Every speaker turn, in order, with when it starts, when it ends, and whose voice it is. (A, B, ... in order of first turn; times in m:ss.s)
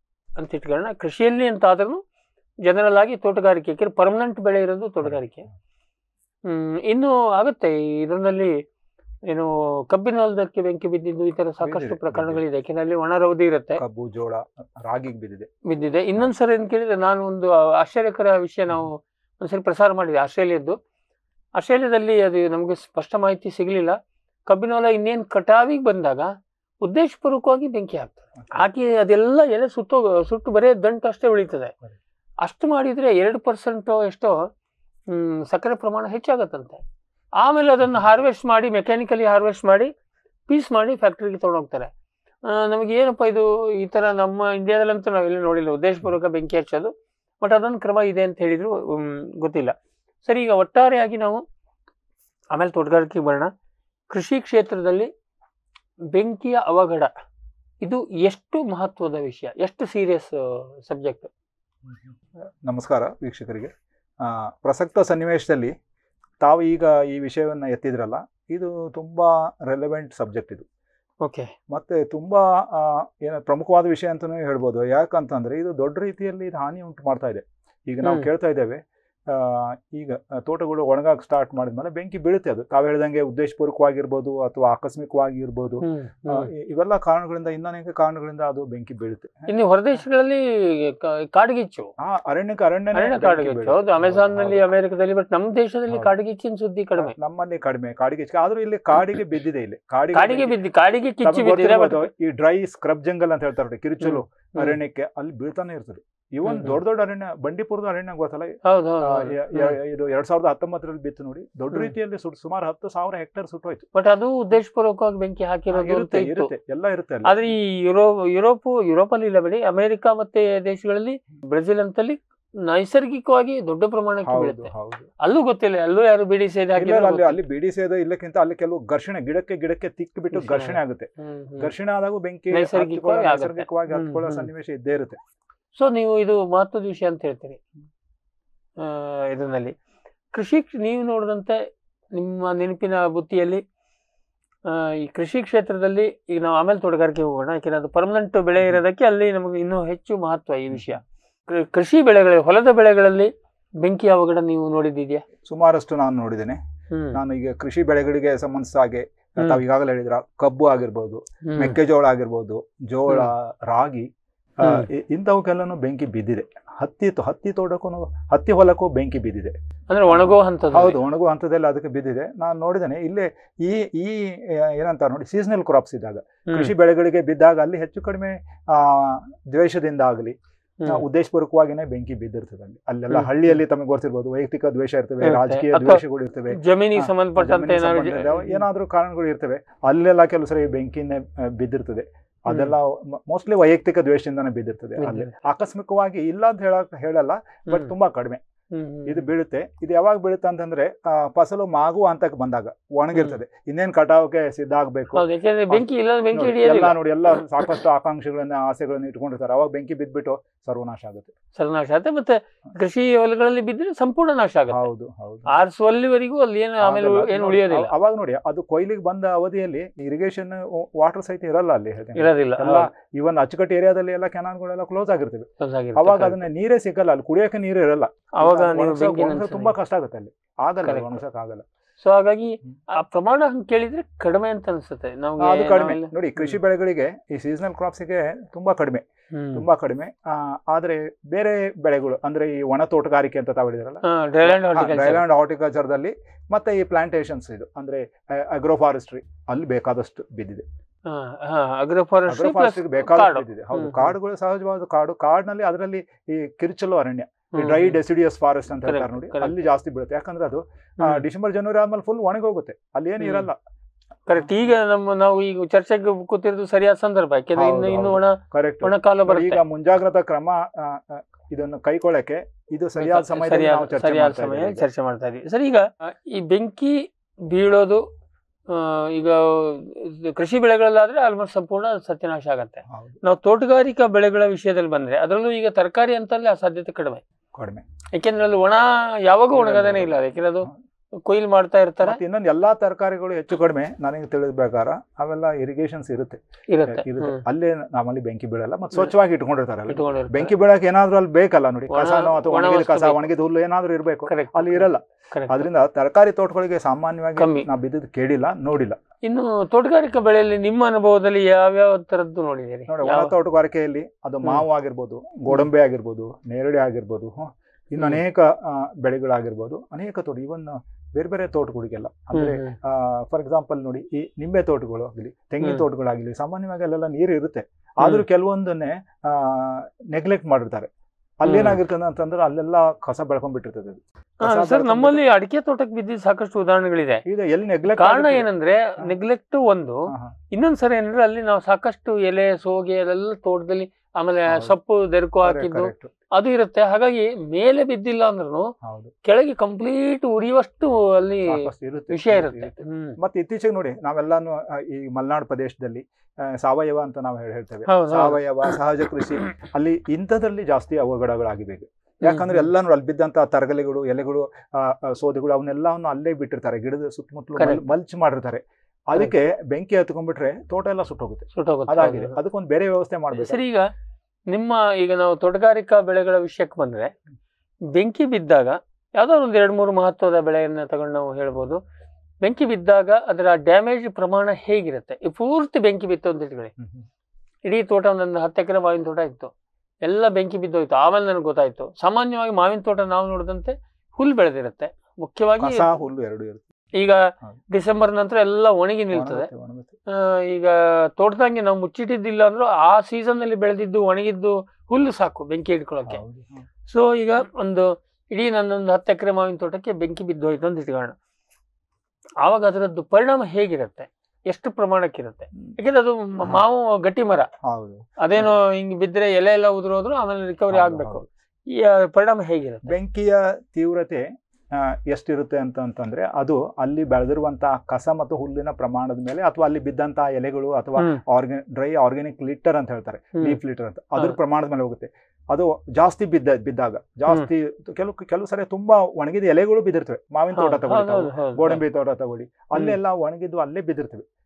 0:00.4-0:02.0 A
0:02.6-0:05.5 A
0:06.4-0:08.6 A
0:09.3-0:13.8 A
0:11.6-0:12.4 B
0:13.8-0:15.5 B
0:15.7-0:20.8 A
0:21.6-0:31.7 A
0:32.4-0:34.5 A
0:35.1-0:36.8 A
0:37.4-0:39.9 A
0:40.5-0:41.9 A
0:42.4-0:51.4 A
0:52.5-0:53.5 A
0:54.1-0:55.1 A
0:56.1-0:57.1 A
0:57.8-1:01.3 A
1:01.9-1:02.1 B
1:02.6-1:05.8 B
1:06.4-1:10.6 B
1:11.2-1:11.5 A
1:11.7-1:29.5 B
1:18.0-1:18.3 A
1:25.8-1:26.5 A
1:29.5-1:31.9 A
1:32.0-1:34.7 B
1:32.9-1:37.2 A
1:37.0-1:40.6 B
1:40.1-1:42.1 A
1:41.2-1:53.8 B
1:44.0-1:44.8 A
1:46.5-1:46.8 A
1:48.6-1:49.8 A
1:54.0-1:56.5 A
1:55.7-1:57.5 B
1:57.2-2:07.4 A
2:04.2-2:05.1 B
2:06.8-2:15.2 B
2:10.3-2:11.7 A
2:12.5-2:14.5 A
2:15.8-2:17.6 A
2:18.8-2:19.8 A
2:20.3-2:21.6 A
2:22.1-2:23.6 A
2:24.7-2:35.2 A
2:30.7-2:31.0 B
2:35.4-2:36.6 B
2:36.9-2:37.2 A
2:37.1-2:44.1 B
2:41.5-2:41.8 A
2:44.6-2:49.6 B
2:49.9-2:51.0 A
2:50.1-3:00.4 B
2:56.5-2:56.7 A
3:00.9-3:18.4 B
3:05.2-3:08.6 A
3:15.0-3:15.3 A
3:18.7-3:19.2 A
3:19.1-3:31.3 B
3:25.2-3:27.0 A
3:31.6-3:34.9 A
3:34.7-3:35.5 B
3:35.5-3:37.9 A
3:36.8-3:51.6 B
3:42.2-3:42.9 A
3:45.6-3:46.4 A
3:48.4-3:49.7 A
3:50.8-3:51.2 A
3:52.0-3:56.6 A
3:55.4-4:10.6 B
3:59.3-3:59.7 A
4:04.0-4:05.2 A
4:11.1-4:14.1 A
4:12.3-4:23.6 B
4:17.5-4:18.0 A
4:18.8-4:19.6 A
4:23.2-4:23.5 A
4:24.3-4:29.6 A
4:24.4-4:24.7 B
4:27.6-4:34.9 B
4:33.0-4:38.0 A
4:38.7-4:47.2 A
4:42.9-4:43.2 B
4:47.6-4:47.9 B
4:48.1-4:50.7 A
4:49.5-4:50.8 B
4:51.2-4:52.2 A
4:52.0-5:09.0 B
4:56.7-4:57.4 A
4:59.9-5:00.6 A
5:01.9-5:03.3 A
5:04.3-5:05.7 A
5:07.4-5:07.7 A
5:09.2-5:13.3 A
5:12.9-5:30.9 B
5:22.3-5:22.8 A
5:31.4-5:35.2 B
5:31.4-5:31.8 A
5:34.4-5:37.2 A
5:37.3-5:38.5 B
5:37.9-5:48.7 A
5:40.1-5:40.4 B
5:44.5-5:44.8 B
5:45.4-5:46.1 B
5:48.8-5:49.1 B
5:49.2-5:53.2 A
5:51.5-6:13.6 B
5:57.9-5:58.8 A
6:02.2-6:02.7 A
6:07.6-6:07.8 A
6:11.6-6:12.4 A
6:13.4-6:13.9 A
6:14.5-6:17.1 A
6:17.9-6:21.8 A
6:22.4-6:26.7 A
6:26.8-6:27.0 B
6:27.7-6:29.5 A
6:30.0-6:35.9 A
6:35.6-6:36.6 B
6:37.0-6:39.5 A
6:39.1-6:39.9 B
6:40.1-6:46.2 A
6:46.1-6:46.7 B
6:46.9-6:51.2 A
6:52.4-6:57.5 A
6:57.6-6:58.5 B
6:58.2-7:02.9 A
7:00.7-7:01.3 B
7:02.9-7:24.3 B
7:11.0-7:11.2 A
7:20.6-7:21.8 A